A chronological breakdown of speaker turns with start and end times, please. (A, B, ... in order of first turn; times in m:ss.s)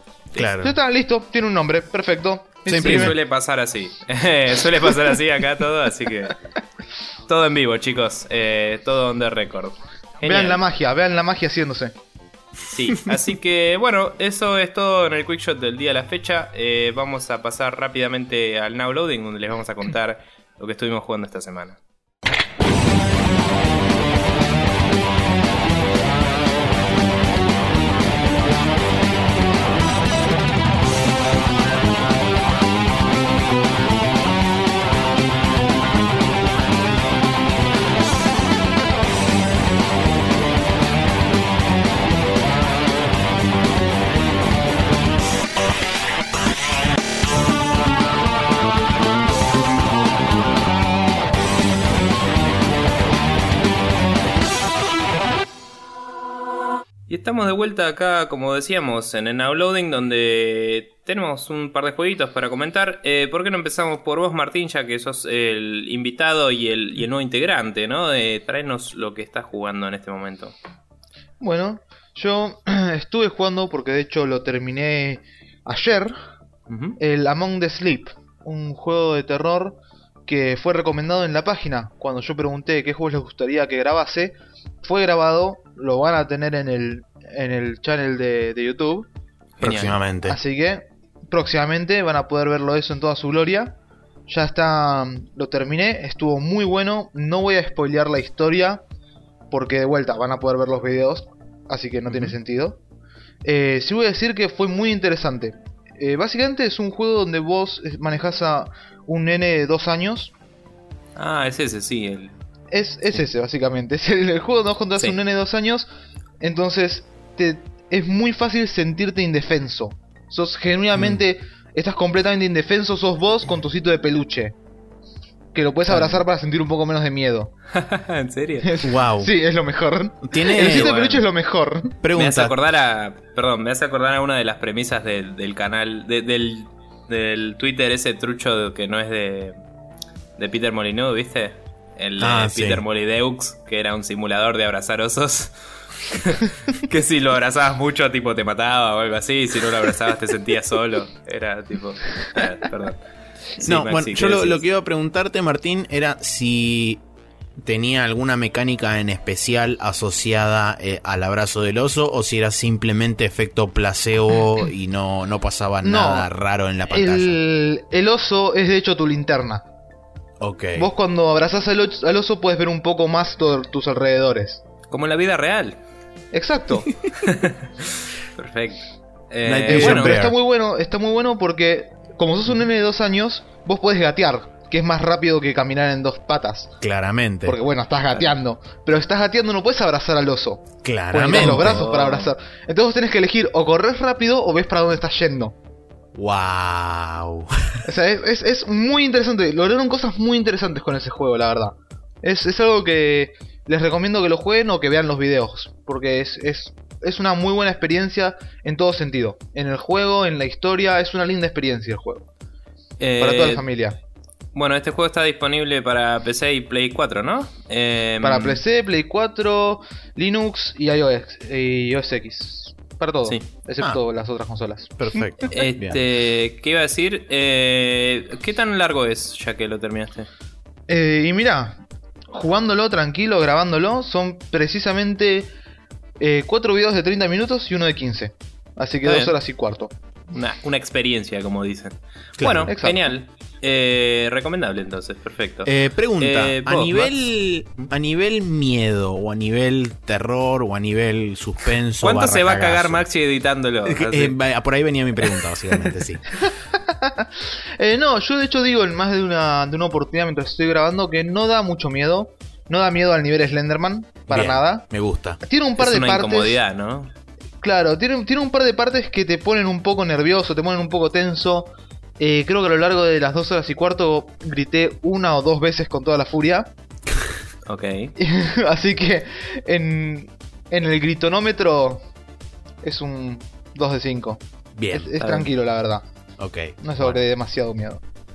0:00.3-0:00.7 A
0:00.6-0:03.1 B
0:02.7-0:03.1 A
0:02.7-0:06.4 C
0:07.3-0:10.6 C
0:10.2-0:11.9 B
0:12.7-0:21.8 C
0:57.1-1:10.5 C
1:11.4-1:16.2 B
1:16.7-1:17.0 C
1:17.0-1:29.1 B
1:29.6-1:30.0 C
1:29.6-1:30.4 A
1:30.2-1:33.8 B
1:34.3-1:38.8 B
1:39.5-1:42.8 B
1:42.1-1:42.3 C
1:43.4-1:50.3 B
1:51.2-1:52.4 C
1:52.7-1:55.9 B
1:56.4-2:04.5 B
2:01.0-2:01.2 A
2:05.5-2:07.5 B
2:05.9-2:06.2 C
2:07.7-2:08.8 C
2:08.6-2:12.0 B
2:08.8-2:09.3 A
2:10.2-2:11.0 A
2:10.5-2:11.2 C
2:12.0-2:12.6 A
2:12.2-2:19.6 C
2:20.4-2:33.0 C
2:22.2-2:22.8 A
2:33.6-2:34.6 C
2:33.6-2:37.0 A
2:37.6-2:47.4 A
2:45.8-2:46.3 B
2:46.9-2:49.6 B
2:50.4-2:50.9 A
2:50.8-2:54.6 B
2:54.9-2:55.8 C
2:56.3-2:56.9 B
2:57.1-3:00.2 C
2:59.4-3:00.4 A
2:59.7-3:06.7 B
3:06.8-3:07.6 A
3:07.4-3:15.6 B
3:10.8-3:11.9 A
3:11.3-3:12.3 C
3:16.1-3:17.8 A
3:17.8-3:32.2 B
3:33.0-3:33.6 C
3:33.2-3:34.0 B
3:34.5-3:38.6 C
3:38.2-3:45.5 B
3:45.0-3:46.0 A
3:45.5-3:50.3 C
3:50.9-3:55.5 B
3:56.2-3:59.9 B
3:59.0-3:59.3 C
4:00.3-4:07.1 C
4:02.4-4:02.7 A
4:02.7-4:03.1 B
4:05.6-4:13.0 A
4:12.0-4:14.3 C
4:13.8-4:16.3 A
4:16.4-4:24.8 B
4:24.3-4:25.4 A
4:25.4-4:26.6 B
4:25.8-4:27.1 C
4:27.6-4:36.7 B
4:37.6-4:38.1 C
4:38.2-4:42.0 B
4:42.8-4:46.0 B
4:44.8-4:45.1 A
4:45.2-4:45.5 C
4:46.4-4:47.2 A
4:46.8-4:48.0 B